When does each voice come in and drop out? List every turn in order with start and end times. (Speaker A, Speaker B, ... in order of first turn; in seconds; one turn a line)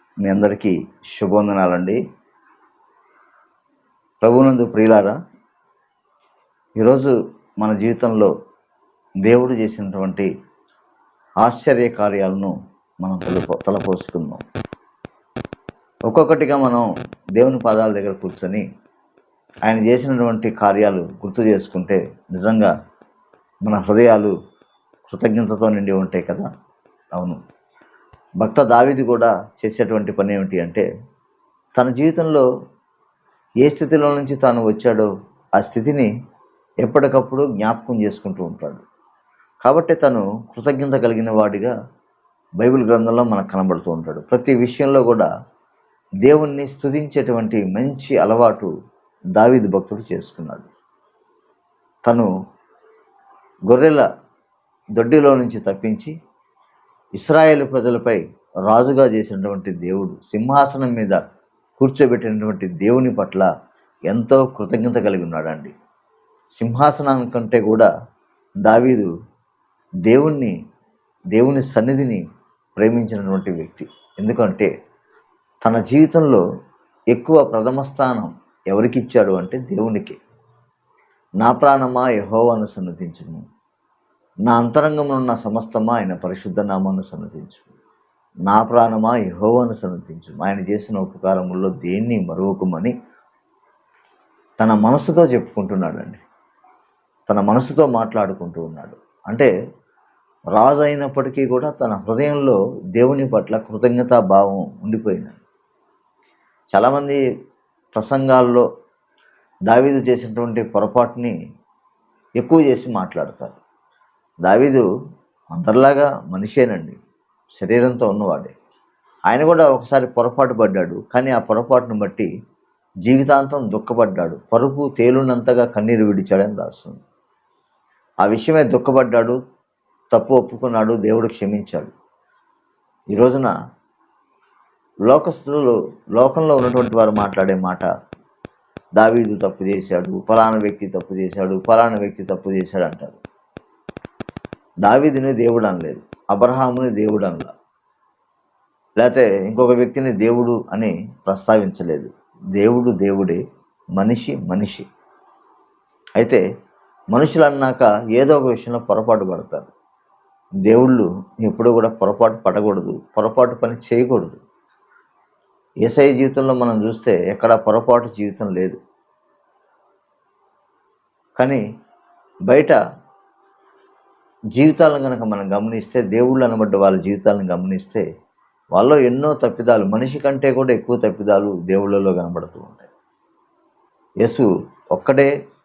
Speaker A: 0.2-2.0
Speaker A: 4.2-5.2
Speaker A: 6.8-8.3
Speaker A: 9.2-10.3
Speaker A: 11.4-14.4
Speaker A: 16.1-16.8
Speaker A: 17.4-18.6
Speaker A: 19.6-22.7
Speaker A: 23.6-24.3
Speaker A: 25.1-26.5
Speaker A: 28.4-30.9
Speaker A: 31.8-32.5
Speaker A: 33.6-36.1
Speaker A: 36.8-38.8
Speaker A: 39.6-41.7
Speaker A: 42.6-45.3
Speaker A: 46.2-48.7
Speaker A: 49.4-50.7
Speaker A: 53.7-54.1
Speaker A: 55.0-56.1
Speaker A: 57.1-61.2
Speaker A: 61.8-63.5
Speaker A: 64.1-65.7
Speaker A: 66.6-67.9
Speaker A: 68.6-69.1
Speaker A: 70.1-70.5
Speaker A: 71.3-72.2
Speaker A: 72.8-74.7
Speaker A: 75.6-76.4
Speaker A: 77.1-80.2
Speaker A: 81.4-83.4
Speaker A: 84.5-87.7
Speaker A: 88.5-92.9
Speaker A: 94.6-96.2
Speaker A: 97.3-99.5
Speaker A: 100.5-105.4
Speaker A: 106.7-107.2
Speaker A: 107.9-108.7
Speaker A: 109.7-111.3
Speaker A: 112.4-113.6
Speaker A: 114.4-114.8
Speaker A: 115.5-117.0
Speaker A: 117.6-118.5
Speaker A: 119.3-122.3
Speaker A: 123.0-127.0
Speaker A: 128.2-129.4
Speaker A: 130.1-131.9
Speaker A: 133.1-133.5
Speaker A: 135.1-137.9
Speaker A: 139.0-143.2
Speaker A: 144.8-147.5
Speaker A: 149.0-153.4
Speaker A: 154.0-154.8
Speaker A: 157.1-159.7
Speaker A: 160.7-164.4
Speaker A: 165.8-168.8
Speaker A: 171.4-171.6
Speaker A: 172.5-172.8
Speaker A: 174.5-178.0
Speaker A: 178.7-182.9
Speaker A: 184.2-185.3